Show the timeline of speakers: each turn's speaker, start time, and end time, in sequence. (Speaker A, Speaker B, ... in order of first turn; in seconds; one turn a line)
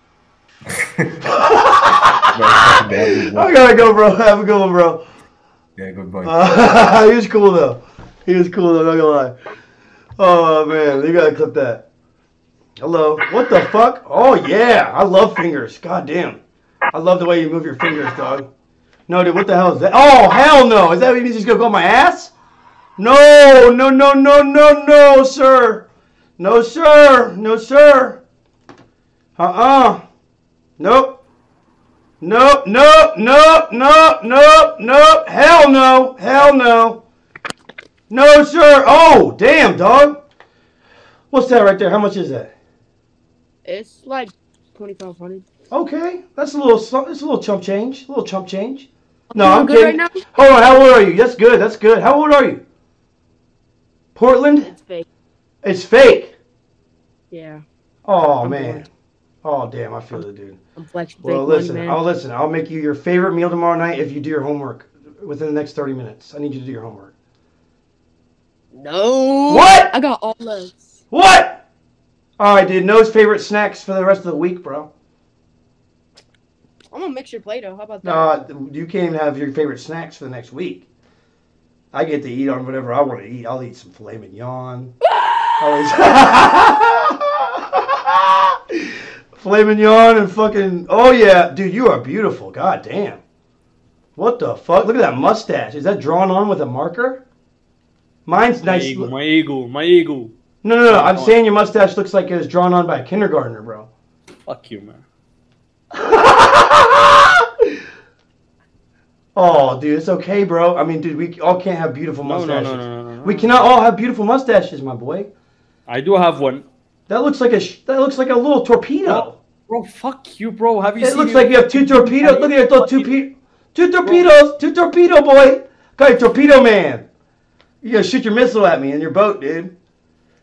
Speaker A: 0.7-1.3
Speaker B: 1.2-5.0
Speaker A: 2.3-3.8
Speaker A: 5.8-6.8
Speaker B: 6.2-9.3
Speaker B: 10.2-11.8
Speaker B: 12.8-16.4
Speaker B: 16.9-18.5
Speaker B: 19.1-22.3
Speaker B: 23.0-25.9
Speaker B: 26.4-28.2
Speaker B: 29.4-30.0
Speaker B: 30.8-31.2
Speaker B: 32.2-37.0
Speaker B: 38.1-40.2
Speaker B: 41.3-42.5
Speaker C: 43.6-45.4
Speaker B: 45.7-52.6
Speaker C: 49.3-50.2
Speaker B: 54.1-54.7
Speaker C: 54.6-55.0
Speaker B: 55.6-56.3
Speaker C: 57.3-57.6
Speaker B: 58.0-58.9
Speaker C: 58.5-58.8
Speaker B: 59.4-60.6
Speaker C: 60.8-62.0
Speaker B: 61.2-67.1
Speaker C: 68.7-70.8
Speaker B: 69.5-69.9
Speaker B: 71.1-71.6
Speaker B: 72.4-74.9
Speaker C: 76.9-78.4
Speaker B: 78.0-80.9
Speaker B: 81.9-84.9
Speaker C: 85.2-85.5
Speaker B: 85.6-93.2
Speaker B: 94.2-97.2
Speaker B: 98.2-99.1
Speaker D: 98.7-100.3
Speaker B: 100.6-103.9
Speaker D: 100.9-101.3
Speaker D: 104.5-105.0
Speaker B: 105.9-107.7
Speaker B: 109.3-115.3
Speaker D: 112.3-113.5
Speaker D: 115.9-116.6
Speaker B: 117.1-119.4
Speaker D: 119.1-122.5
Speaker B: 121.0-127.1
Speaker B: 127.8-129.7